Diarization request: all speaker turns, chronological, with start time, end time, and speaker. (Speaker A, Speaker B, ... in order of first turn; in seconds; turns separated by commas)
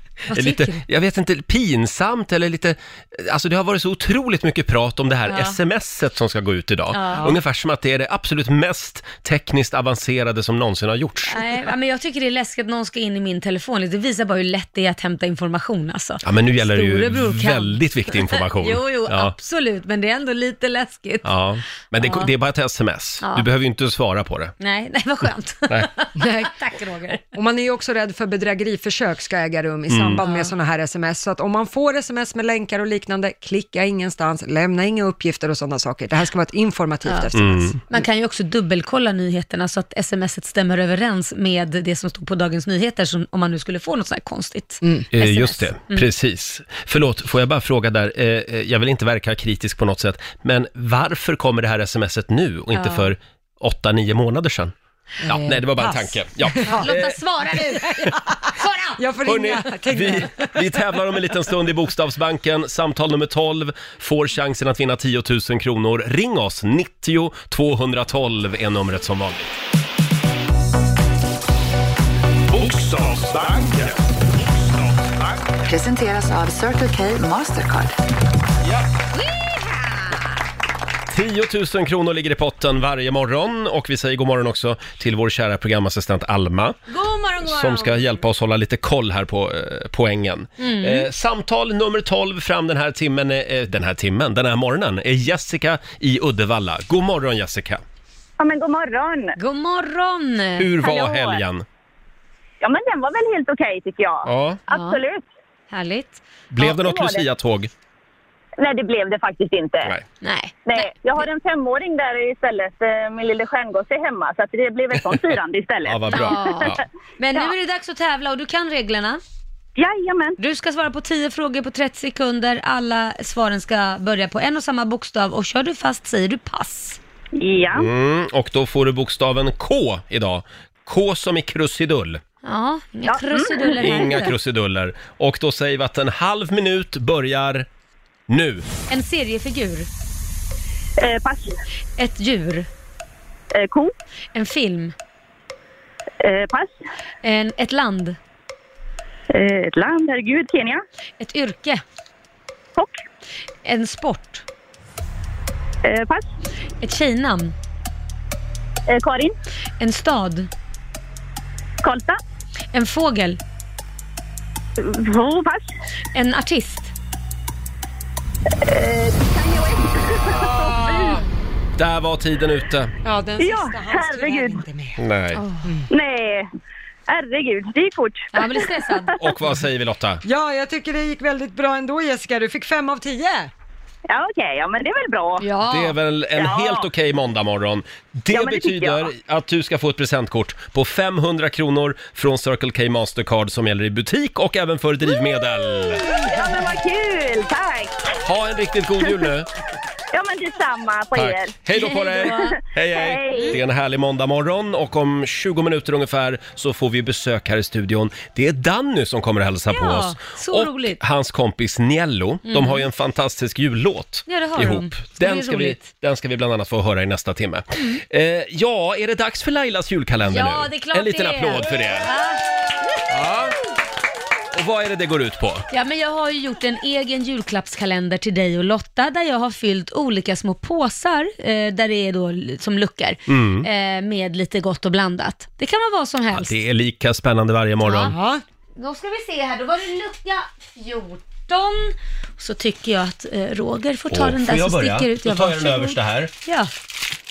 Speaker A: 0.3-11.4, Speaker B: 0.3-0.8, Speaker C: 5.3-5.6, Speaker C: 6.9-7.3, Speaker C: 11.3-21.3, Speaker A: 16.2-19.3, Speaker A: 21.2-24.5, Speaker C: 22.0-22.3, Speaker C: 24.6-27.2, Speaker B: 26.2-26.6, Speaker B: 27.1-38.0, Speaker A: 29.9-30.2, Speaker C: 30.2-30.5, Speaker C: 37.0-37.3, Speaker A: 37.3-37.8, Speaker C: 37.9-46.1, Speaker A: 45.1-54.7, Speaker C: 52.7-53.1, Speaker B: 55.2-56.9, Speaker A: 55.2-57.2, Speaker C: 56.6-59.0, Speaker B: 59.0-60.6, Speaker A: 59.2-69.6, Speaker D: 72.5-75.5, Speaker E: 75.6-78.0, Speaker C: 79.2-80.1, Speaker A: 81.1-86.8, Speaker C: 86.9-88.2, Speaker A: 87.4-97.8, Speaker C: 90.6-91.1, Speaker F: 98.4-99.4, Speaker C: 99.4-100.7, Speaker A: 100.6-101.7, Speaker F: 100.8-101.4, Speaker F: 102.6-105.2, Speaker A: 104.2-104.6, Speaker C: 104.7-105.0, Speaker C: 105.7-106.2, Speaker A: 106.5-107.7, Speaker F: 106.6-107.3, Speaker F: 108.6-109.9, Speaker C: 110.2-110.9, Speaker F: 110.7-116.7, Speaker A: 115.8-116.8, Speaker C: 116.1-119.2, Speaker F: 119.8-120.4, Speaker C: 120.4-127.0, Speaker F: 127.4-127.9, Speaker A: 127.7-132.2, Speaker C: 132.4-134.3, Speaker F: 133.1-134.3, Speaker A: 133.8-137.7, Speaker A: 138.3-138.7, Speaker C: 138.9-139.9, Speaker F: 141.0-141.5, Speaker C: 142.0-142.7, Speaker F: 143.5-143.9, Speaker C: 144.3-144.9, Speaker F: 146.2-146.8, Speaker C: 147.2-148.2, Speaker F: 149.3-150.8, Speaker C: 151.2-151.8, Speaker C: 153.7-154.4, Speaker F: 155.8-156.3, Speaker C: 156.8-157.5, Speaker F: 158.9-159.3, Speaker C: 159.8-160.5, Speaker F: 161.8-162.2, Speaker C: 162.7-163.4, Speaker F: 164.8-165.7, Speaker C: 166.1-166.9, Speaker F: 168.6-171.2, Speaker A: 170.3-171.2, Speaker A: 171.8-172.9, Speaker B: 173.0-175.0, Speaker F: 173.4-174.6, Speaker A: 175.0-175.4, Speaker C: 175.4-175.7, Speaker F: 175.9-176.5, Speaker F: 177.1-178.7, Speaker C: 178.3-179.2, Speaker A: 179.2-180.2, Speaker B: 180.2-183.5, Speaker F: 184.1-185.5, Speaker C: 185.4-186.0, Speaker A: 185.7-196.1, Speaker F: 186.3-186.9, Speaker F: 188.3-189.1, Speaker F: 196.0-198.1, Speaker A: 198.2-199.5, Speaker F: 200.1-201.5, Speaker A: 201.2-222.1, Speaker C: 201.8-202.6, Speaker F: 202.4-203.6, Speaker C: 209.7-211.0, Speaker C: 212.5-212.8, Speaker C: 214.3-215.9, Speaker C: 217.8-218.0, Speaker C: 220.3-222.4, Speaker A: 223.1-223.6, Speaker A: 224.5-225.7, Speaker C: 225.7-236.6, Speaker A: 233.3-233.7, Speaker A: 236.3-238.1, Speaker C: 237.8-238.2, Speaker B: 238.1-238.4, Speaker C: 238.8-246.7, Speaker A: 244.1-246.3